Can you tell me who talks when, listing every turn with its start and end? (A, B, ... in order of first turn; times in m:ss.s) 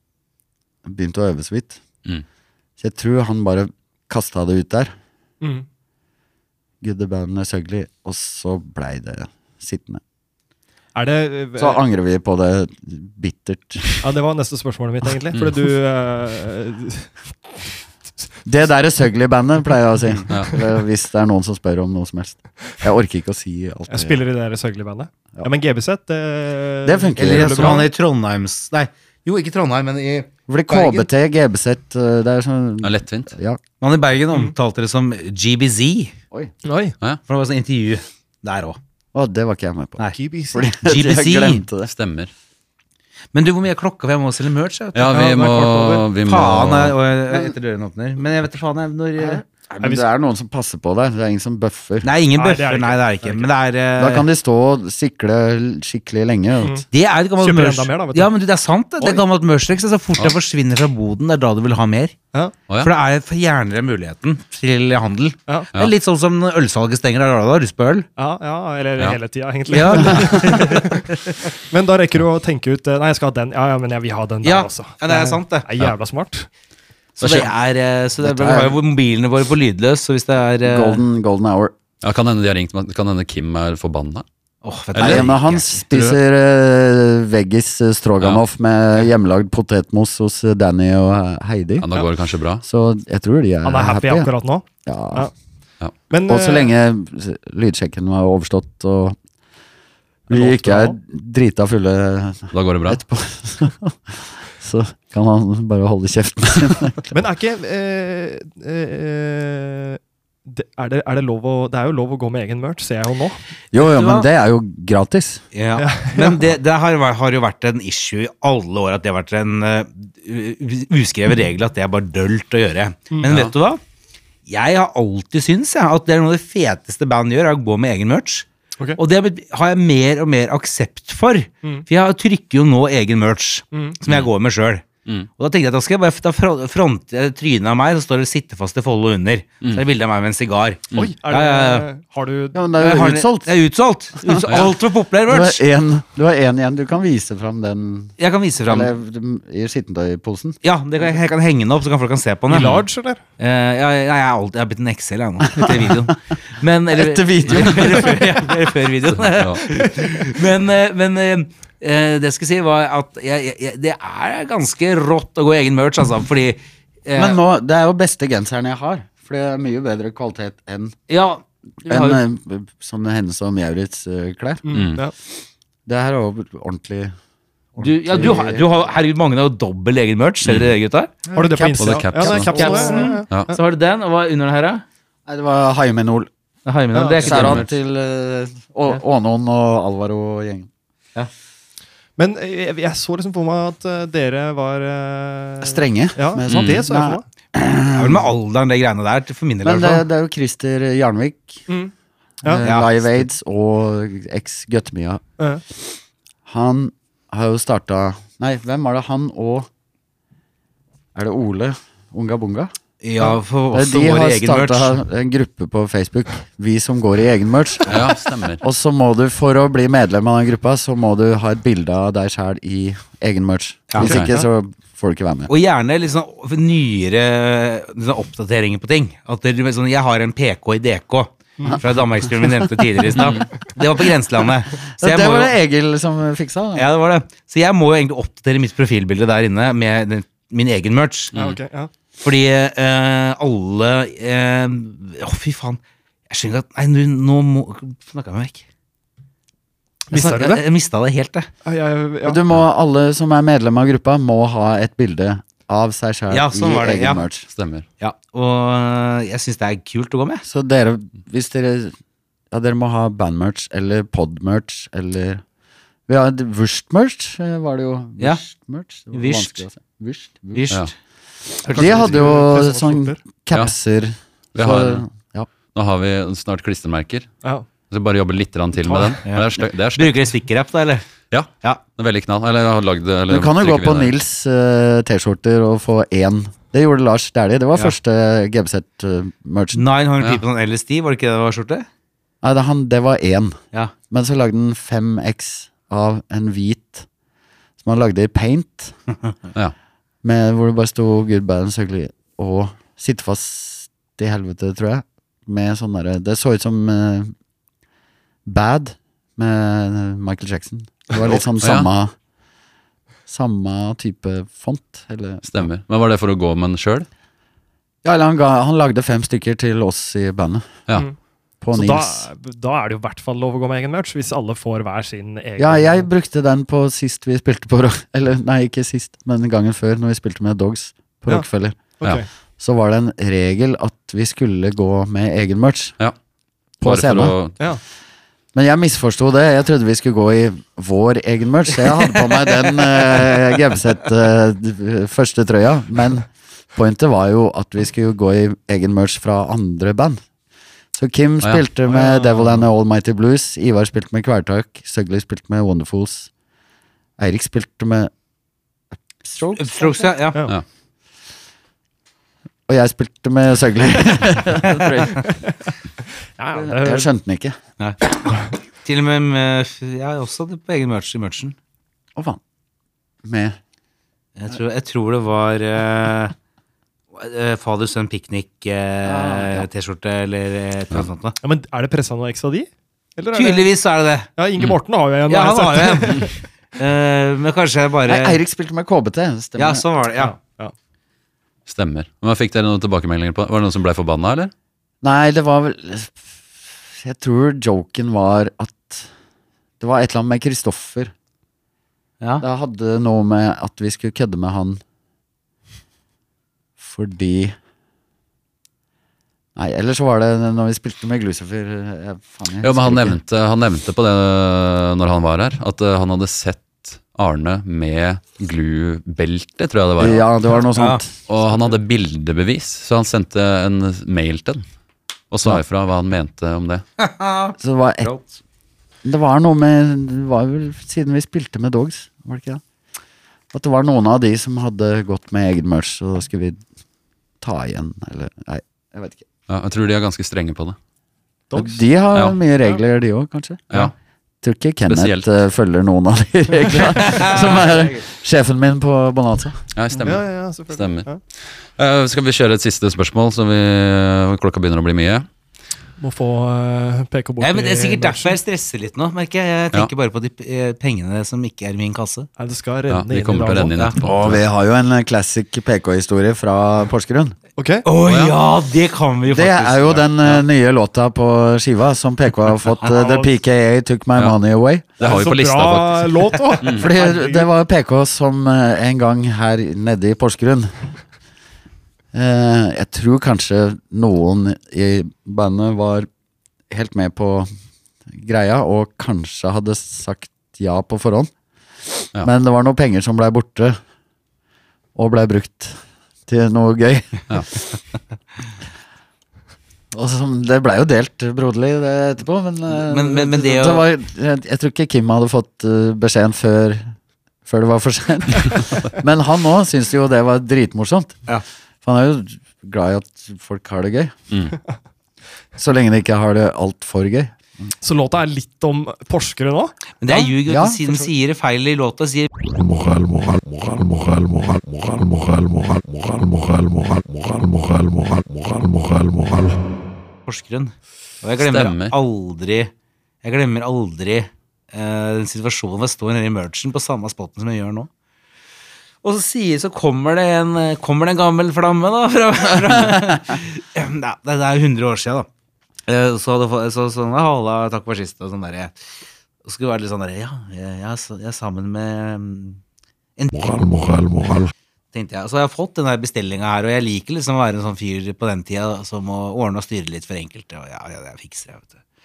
0:00.8-0:01.8 A
0:02.8-0:04.9 A
0:05.4-0:05.6 B
0:06.8-0:10.0 A
0:10.9-0:11.8 B
0:11.6-0:14.0 A
0:14.0-0:17.2 B
0:18.4-0:24.2 A
0:23.9-0:27.8 B
0:26.8-0:27.9 A
0:27.2-0:31.1 C
0:30.5-0:33.6 A
0:32.8-0:33.3 D
0:33.8-0:36.1 C
0:36.6-0:36.9 B
0:37.3-0:38.8 C
0:39.1-0:41.9 A
0:40.1-0:40.7 B
0:40.8-0:41.6 C
0:41.8-0:42.3 D
0:43.3-0:45.2 C
0:44.9-0:47.0 D
0:45.1-0:46.0 B
0:46.2-0:49.4 C
0:49.2-0:52.1 A
0:49.8-0:50.1 B
0:52.0-0:54.3 C
0:52.3-0:53.5 B
0:54.0-0:56.8 A
0:56.6-0:56.9 B
0:56.9-1:02.2 C
0:57.4-0:58.3 B
1:02.8-1:08.1 C
1:08.2-1:16.5 B
1:09.7-1:10.8 C
1:10.2-1:10.5 A
1:14.4-1:15.7 C
1:17.2-1:21.0 C
1:17.2-1:17.5 D
1:18.2-1:18.8 A
1:20.6-1:21.7 A
1:22.0-1:24.2 D
1:24.6-1:25.6 C
1:24.9-1:26.2 D
1:25.0-1:31.9 A
1:31.8-1:32.6 D
1:32.6-1:34.3 A
1:33.6-1:35.3 B
1:34.8-1:35.3 A
1:36.1-1:36.7 B
1:36.2-1:39.2 A
1:40.3-1:47.1 A
1:40.3-1:41.0 B
1:42.5-1:43.0 D
1:47.1-1:53.4 B
1:53.7-1:55.4 A
1:53.8-1:54.3 C
1:55.5-2:03.8 C
1:55.8-1:56.4 B
2:03.2-2:03.5 D
2:04.5-2:14.8 C
2:13.7-2:14.0 B
2:15.4-2:21.9 C
2:20.9-2:22.6 B
2:22.5-2:23.5 A
2:22.8-2:25.6 C
2:24.4-2:24.7 D
2:25.3-2:30.6 A
2:28.2-2:28.9 C
2:30.6-2:32.8 C
2:32.5-2:33.2 B
2:33.4-2:47.4 C
2:35.5-2:36.0 A
2:36.9-2:38.3 A
2:39.2-2:39.6 D
2:47.2-2:50.9 A
2:51.1-2:52.2 C
2:51.9-2:54.9 A
2:54.6-2:55.1 B
2:54.7-2:55.0 D
2:55.8-2:57.1 A
2:57.7-2:58.7 A
2:57.8-3:01.2 C
3:01.3-3:03.1 A
3:01.3-3:03.5 B
3:01.8-3:03.5 D
3:02.2-3:04.8 C
3:05.2-3:06.3 A
3:06.6-3:07.7 C
3:06.9-3:07.3 B
3:07.2-3:10.7 A
3:07.3-3:07.7 D
3:12.2-3:17.2 B
3:15.6-3:18.2 A
3:16.5-3:16.8 D
3:17.9-3:20.0 C
3:19.6-3:21.7 A
3:22.4-3:25.2 A
3:22.6-3:23.2 C
3:26.5-3:29.7 A
3:31.1-3:45.5 A
3:33.0-3:35.0 C
3:37.9-3:38.6 D
3:43.9-3:44.1 C
3:44.0-3:44.4 D
3:44.1-3:44.4 B
3:45.5-3:55.5 C
3:53.2-3:53.4 D
3:55.0-3:56.8 A
3:56.8-4:01.3 C
4:01.3-4:01.6 D
4:01.3-4:01.9 B
4:02.2-4:08.6 C
4:10.1-4:10.6 B
4:10.1-4:11.5 C
4:11.6-4:12.4 B
4:12.2-4:17.5 A
4:16.3-4:17.3 C
4:17.5-4:17.8 D
4:18.0-4:20.4 C
4:20.4-4:21.9 A
4:22.5-4:25.4 A
4:26.1-4:30.7 A
4:29.1-4:29.6 C
4:30.5-4:30.9 C
4:31.6-4:35.5 A
4:31.7-4:32.1 C
4:31.7-4:33.2 B
4:34.5-4:35.0 D
4:35.7-4:37.3 D
4:37.9-4:40.1 D
4:38.8-4:39.2 B
4:39.2-4:41.0 C
4:41.3-4:44.1 D
4:43.3-4:49.8 A
4:49.7-4:51.8 C
4:52.4-4:53.6 A
4:54.1-4:57.1 A
4:57.8-4:58.9 A
5:00.2-5:07.3 A
5:08.4-5:12.1 A
5:11.6-5:11.9 D
5:13.3-5:15.7 A
5:15.4-5:17.1 D
5:18.0-5:20.8 A
5:21.6-5:22.3 A
5:21.7-5:26.0 B
5:25.6-5:31.8 A
5:32.0-5:32.3 B
5:32.6-5:36.0 A
5:36.8-5:37.4 A
5:36.8-5:37.6 D
5:38.5-5:50.2 A
5:50.9-5:56.3 A
5:51.9-5:52.6 B
5:57.2-5:58.1 A
5:59.2-6:00.1 A
5:59.6-6:00.4 C
6:02.7-6:05.3 A
6:04.6-6:04.9 C
6:06.4-6:07.1 B
6:06.5-6:07.6 A
6:07.8-6:08.3 C
6:08.8-6:11.6 C
6:13.2-6:13.6 A
6:14.4-6:16.3 C
6:17.1-6:21.4 C
6:19.0-6:19.7 A
6:21.4-6:23.7 B
6:23.3-6:24.3 C
6:24.4-6:26.4 B
6:25.3-6:28.4 C
6:28.0-6:29.8 A
6:29.6-6:30.3 C
6:30.2-6:30.7 B
6:31.7-6:34.5 D
6:35.0-6:39.1 A
6:39.8-6:41.1 A
6:42.4-6:44.8 A
6:46.8-6:47.5 A
6:49.6-6:53.2 A
6:52.6-7:00.2 D
7:00.0-7:01.1 A
7:00.7-7:01.0 C
7:01.3-7:04.6 D
7:05.3-7:06.8 D
7:07.0-7:08.3 C
7:07.6-7:08.1 A
7:09.0-7:12.6 A
7:13.5-7:16.6 A
7:17.4-7:19.2 A
7:19.5-7:20.8 D
7:21.5-7:21.8 B
7:21.5-7:23.9 A
7:24.4-7:29.6 A
7:24.9-7:25.3 D
7:26.8-7:28.0 C
7:29.7-7:35.3 D
7:30.0-7:31.2 B
7:36.0-7:38.4 B
7:37.4-7:42.3 C
7:42.4-7:43.8 B
7:42.9-7:44.4 D
7:44.0-7:47.4 A
7:47.6-7:47.8 B
7:47.8-7:50.4 C
7:48.0-7:48.4 D
7:49.3-7:54.9 A
7:52.8-7:53.3 B
7:55.0-7:56.9 D
7:55.0-7:57.5 B
7:56.6-8:00.9 A
8:02.1-8:06.1 A
8:06.7-8:07.5 A
8:08.1-8:11.3 A
8:12.0-8:13.8 A
8:14.9-8:17.4 A
8:19.9-8:26.9 A
8:22.7-8:23.8 C
8:27.4-8:31.2 A
8:31.8-8:34.1 A
8:34.3-8:34.6 D
8:35.6-8:37.4 A
8:37.8-8:39.8 B
8:40.0-8:42.3 C
8:40.1-8:41.0 A
8:42.5-8:49.6 E
8:50.2-8:52.7 C
8:51.4-8:51.9 D
8:53.2-8:57.9 C
8:59.0-9:05.3 C
9:05.9-9:08.8 C
9:09.4-9:12.6 C
9:13.3-9:14.5 E
9:14.9-9:21.8 C